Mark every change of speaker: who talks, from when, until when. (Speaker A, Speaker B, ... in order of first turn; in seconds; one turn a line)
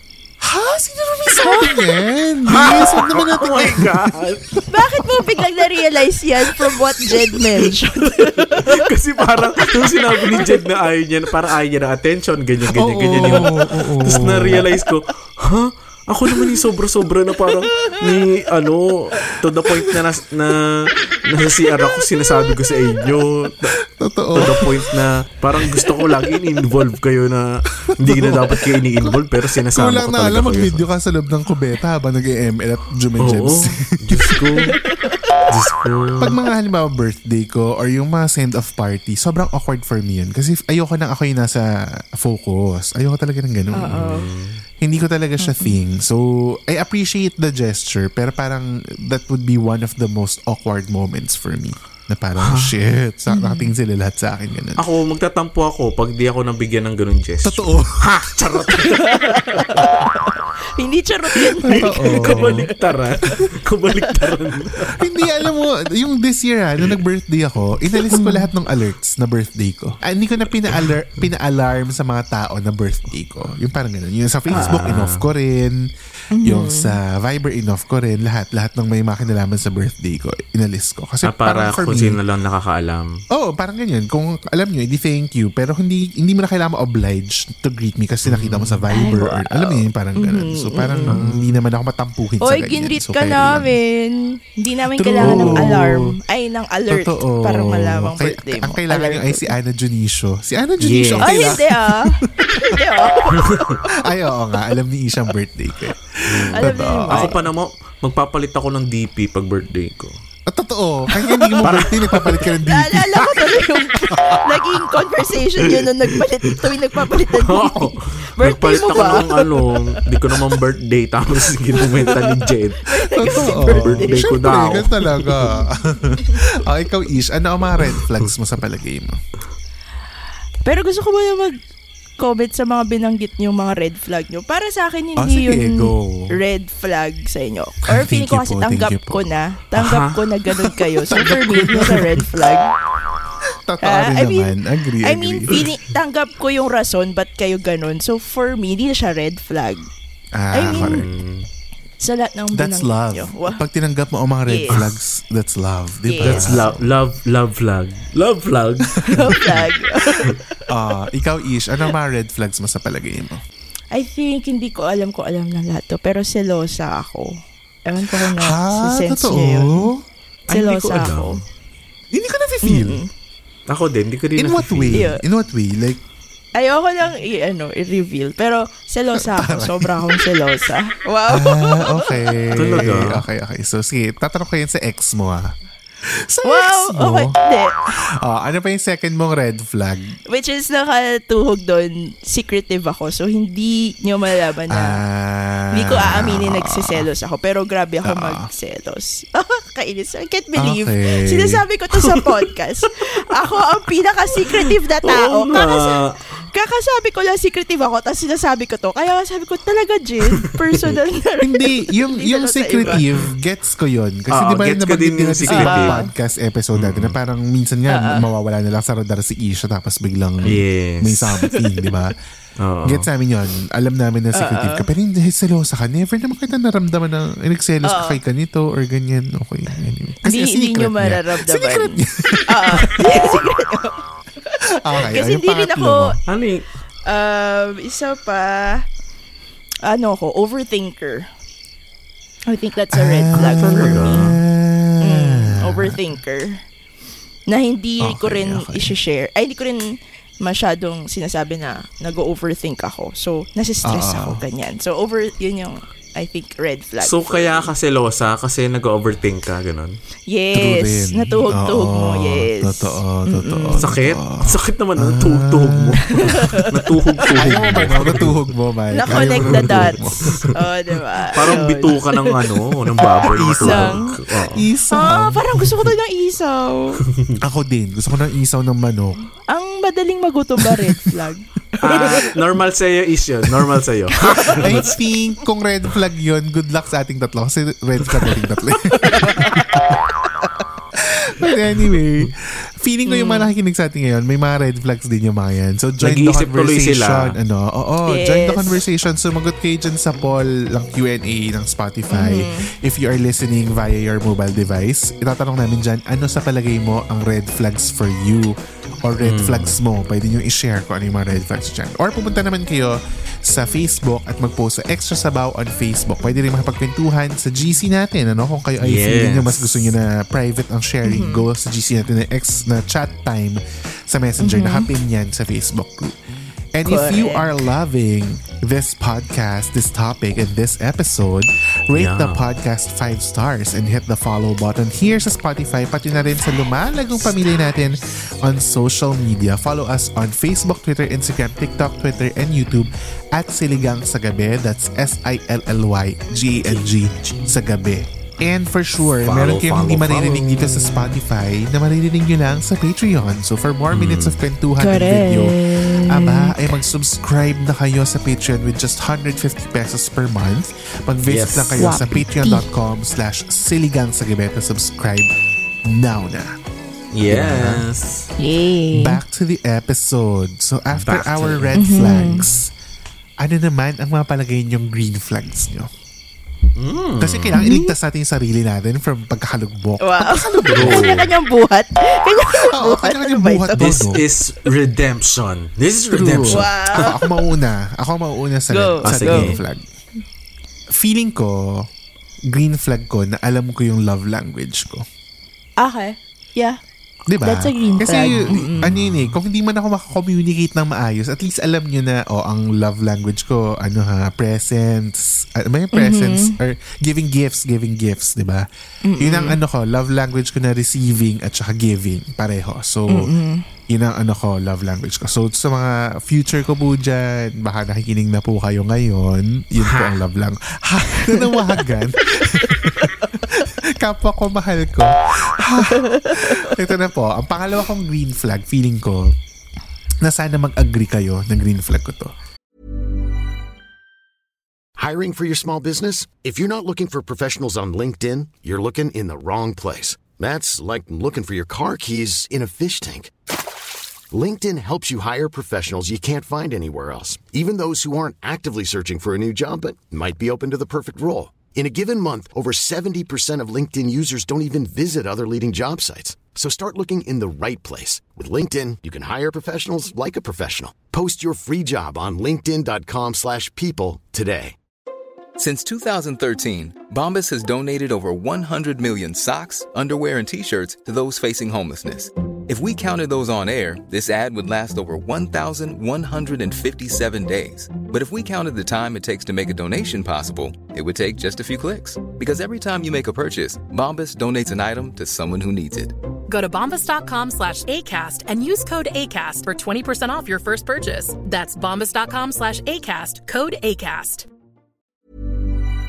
Speaker A: 0.4-4.9
Speaker B: 1.4-1.8
Speaker C: 2.5-4.6
Speaker B: 4.7-8.8
Speaker C: 8.5-23.8
Speaker B: 10.1-10.5
Speaker A: 12.7-14.7
Speaker A: 23.9-24.9
Speaker C: 24.4-30.9
Speaker A: 28.0-34.4
Speaker C: 33.2-34.8
Speaker B: 34.9-35.2
Speaker C: 35.5-36.4
Speaker A: 36.2-44.2
Speaker B: 43.8-44.3
Speaker C: 43.9-44.6
Speaker A: 44.8-54.8
Speaker B: 45.4-45.8
Speaker C: 52.4-52.7
Speaker B: 53.3-53.7
Speaker C: 54.8-59.9
Speaker A: 57.4-58.1
Speaker B: 58.9-62.6
Speaker A: 61.6-62.7
Speaker C: 61.7-65.0
Speaker A: 65.0-75.9
Speaker B: 68.1-68.5
Speaker C: 74.5-75.2
Speaker B: 74.5-74.8
Speaker B: 76.3-77.0
Speaker A: 76.4-82.2
Speaker C: 81.2-83.2
Speaker A: 83.3-93.8
Speaker C: 88.2-88.8
Speaker B: 88.9-91.2
Speaker C: 91.1-91.6
Speaker B: 92.4-99.5
Speaker A: 94.9-96.1
Speaker C: 95.2-95.8
Speaker A: 96.9-102.8
Speaker C: 100.8-101.6
Speaker B: 101.2-103.6
Speaker C: 103.4-103.8
Speaker A: 104.0-107.4
Speaker C: 106.3-110.1
Speaker B: 106.5-107.3
Speaker A: 110.5-113.3
Speaker C: 111.6-112.5
Speaker B: 112.7-120.0
Speaker C: 117.3-125.5
Speaker B: 121.9-122.3
Speaker B: 122.9-124.8
Speaker A: 123.1-129.2
Speaker B: 130.6-131.6
Speaker B: 132.2-142.7
Speaker A: 135.2-136.4
Speaker A: 137.9-139.3
Speaker C: 139.8-140.2
Speaker A: 140.6-142.3
Speaker A: 143.5-145.6
Speaker B: 143.8-149.9
Speaker A: 150.3-151.1
Speaker B: 150.5-151.0
Speaker C: 150.7-151.5
Speaker B: 152.0-153.6
Speaker A: 152.5-156.9
Speaker B: 154.5-154.8
Speaker B: 156.1-156.6
Speaker C: 156.2-159.3
Speaker B: 159.1-160.4
Speaker A: 159.1-159.6
Speaker A: 160.7-163.4
Speaker B: 163.9-169.9
Speaker A: 168.0-170.1
Speaker C: 170.5-171.4
Speaker B: 170.5-171.4
Speaker A: 172.1-173.0
Speaker B: 172.6-173.1
Speaker C: 173.7-175.1
Speaker A: 174.4-176.0
Speaker B: 174.9-175.2
Speaker B: 176.6-182.4
Speaker A: 179.1-180.1
Speaker A: 181.3-187.4
Speaker C: 182.5-183.2
Speaker B: 186.4-187.8
Speaker A: 187.9-190.2
Speaker B: 190.3-195.0
Speaker A: 194.7-197.1
Speaker B: 195.7-206.0
Speaker A: 198.1-198.5
Speaker A: 200.6-201.6
Speaker C: 204.5-206.2
Speaker B: 206.5-213.0
Speaker A: 211.4-222.1
Speaker C: 214.3-216.0
Speaker B: 215.5-216.1
Speaker C: 216.8-217.2
Speaker B: 217.9-218.3
Speaker C: 220.4-221.4
Speaker C: 222.6-223.1
Speaker A: 222.8-233.5
Speaker B: 224.3-224.9
Speaker B: 227.8-228.2
Speaker B: 230.3-231.9
Speaker B: 232.5-236.2
Speaker A: 234.7-236.2
Speaker C: 236.3-236.7
Speaker B: 237.1-238.9
Speaker B: 239.8-241.3
Speaker B: 242.5-244.3
Speaker A: 242.9-246.0
Speaker C: 243.3-244.4
Speaker B: 245.0-246.6
Speaker B: 247.5-257.7
Speaker A: 248.0-248.9
Speaker A: 253.8-254.4
Speaker C: 257.0-260.0
Speaker B: 260.3-263.9
Speaker A: 260.5-266.4
Speaker C: 263.8-268.4
Speaker B: 266.1-266.7
Speaker A: 267.3-270.5
Speaker B: 268.9-272.5
Speaker C: 269.1-269.7
Speaker C: 271.3-274.7
Speaker A: 273.2-275.6
Speaker B: 273.6-274.1
Speaker B: 274.9-277.0
Speaker A: 277.4-279.2
Speaker B: 279.5-282.3
Speaker C: 281.8-284.9
Speaker B: 284.2-284.6
Speaker A: 284.5-289.8
Speaker B: 289.0-289.7
Speaker A: 290.9-326.1
Speaker B: 293.1-293.5
Speaker C: 296.0-297.4
Speaker B: 298.1-298.8
Speaker B: 302.1-302.7
Speaker C: 309.2-309.8
Speaker C: 318.8-319.9
Speaker B: 321.1-321.4
Speaker B: 324.4-324.9
Speaker A: 326.7-365.3
Speaker B: 326.8-327.5
Speaker C: 331.9-332.4
Speaker C: 346.8-347.4
Speaker C: 349.2-351.1
Speaker C: 353.9-354.4
Speaker B: 354.8-356.6
Speaker C: 361.3-362.0
Speaker B: 361.8-362.6
Speaker A: 365.9-366.6
Speaker C: 367.1-368.3
Speaker A: 367.3-367.9
Speaker B: 368.4-369.2
Speaker A: 368.9-372.7
Speaker C: 370.9-372.5
Speaker B: 371.8-372.4
Speaker A: 373.4-375.9
Speaker C: 376.8-377.6
Speaker A: 377.2-381.1
Speaker B: 377.6-377.9
Speaker B: 380.0-384.0
Speaker C: 380.7-381.3
Speaker A: 382.6-384.2
Speaker C: 383.8-387.1
Speaker A: 386.1-389.9
Speaker B: 386.5-387.2
Speaker B: 388.7-389.6
Speaker C: 389.1-389.6
Speaker A: 390.9-391.9
Speaker A: 392.5-395.1
Speaker B: 395.8-396.8
Speaker A: 397.3-408.7
Speaker B: 397.4-398.9
Speaker C: 398.4-399.3
Speaker B: 405.9-406.6
Speaker B: 409.0-409.6
Speaker A: 409.2-413.3
Speaker B: 413.1-413.6
Speaker A: 413.9-429.3
Speaker C: 419.8-420.2
Speaker B: 421.2-421.5
Speaker B: 425.9-426.7
Speaker A: 430.2-432.3
Speaker D: 435.0-443.3
Speaker D: 444.3-464.8
Speaker E: 465.6-486.1
Speaker F: 486.5-494.5